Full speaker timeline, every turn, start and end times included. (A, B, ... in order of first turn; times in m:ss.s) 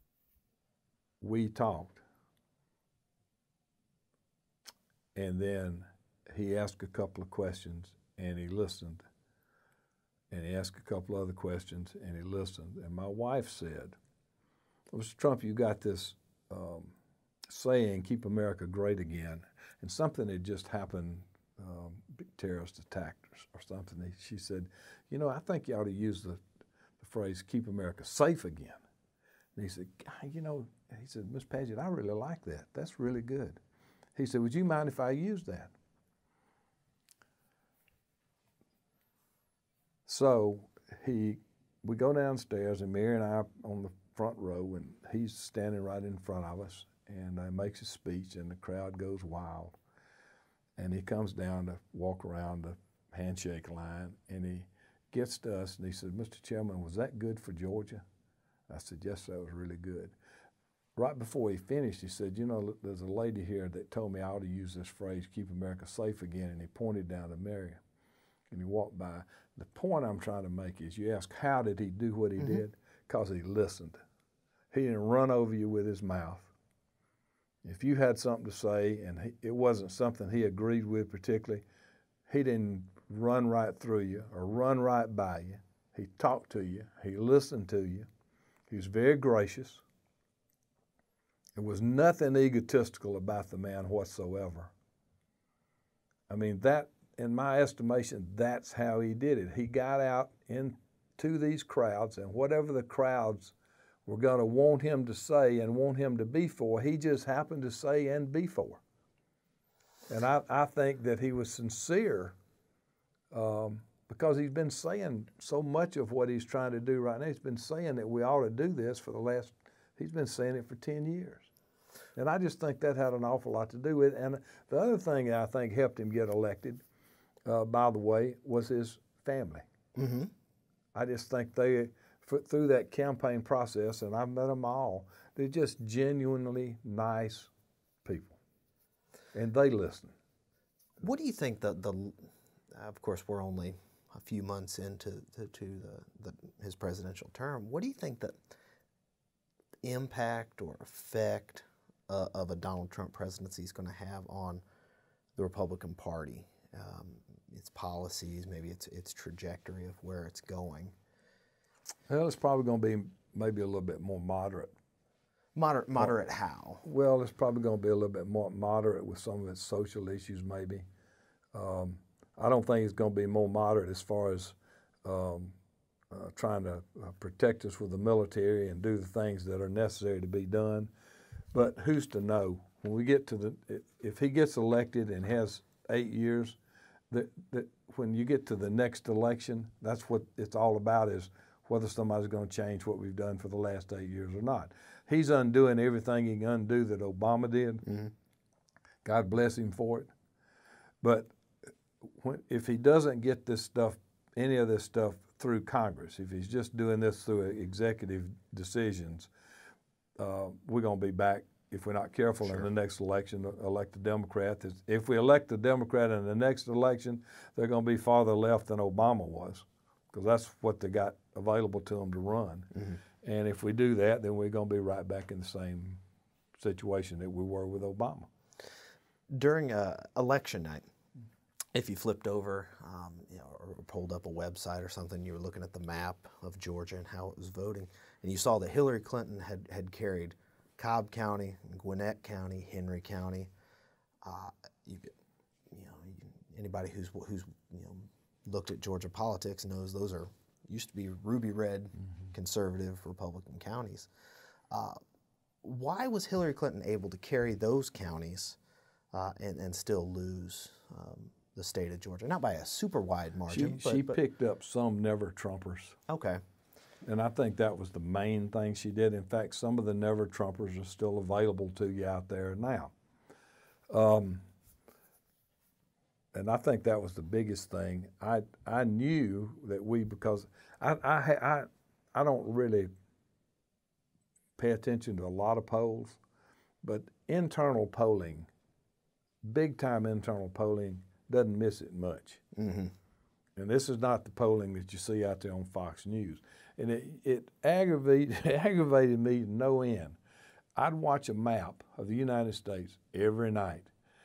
0:01.2-0:02.0 A
0:05.1-0:09.0 A
0:10.3-0:14.0 A
0:14.9-0:16.9 A
0:17.5-0:26.4 A
0:27.0-0:28.8 A
0:29.6-0:33.6 A
0:34.2-0:35.7 A
0:40.0-0:49.8 A
0:50.8-0:58.0 A
0:58.7-1:00.1 A
1:01.0-1:07.8 A
1:08.5-1:14.0 A
1:14.7-1:16.5 A
1:17.6-1:21.6 A
1:22.3-1:28.1 A
1:28.7-1:29.8 A
1:31.6-1:34.7 A
1:36.3-1:43.5 A
1:44.0-1:48.8 A
1:50.1-1:52.4 A
1:53.3-2:01.5 A
2:02.2-2:06.8 A
2:07.4-2:09.6 A
2:10.0-2:10.3 B
2:10.9-2:17.5 A
2:18.0-2:18.4 A
2:19.3-2:20.1 A
2:21.0-2:28.4 B
2:29.8-2:34.6 B
2:35.4-2:40.9 B
2:42.1-2:44.7 A
2:45.6-2:46.8 B
2:46.8-2:50.8 A
2:51.5-2:55.5 A
2:56.1-3:00.9 A
3:01.5-3:06.6 A
3:07.1-3:17.8 A
3:17.8-3:18.1 B
3:19.0-3:20.1 A
3:21.0-3:21.3 A
3:22.0-3:29.3 A
3:30.2-3:46.0 A
3:46.6-3:48.3 A
3:49.3-3:50.9 B
3:51.7-4:03.5 B
4:04.2-4:05.1 B
4:05.7-4:14.1 B
4:14.7-4:15.0 B
4:15.6-4:18.6 B
4:19.1-4:24.2 B
4:23.5-4:26.0 A
4:26.1-4:26.4 B
4:27.0-4:32.9 A
4:33.9-4:34.4 A
4:36.3-4:42.9 A
4:44.6-4:46.2 A
4:46.8-4:48.5 A
4:49.4-4:52.4 A
4:52.5-4:52.9 B
4:53.6-5:00.2 A
5:00.8-5:03.9 A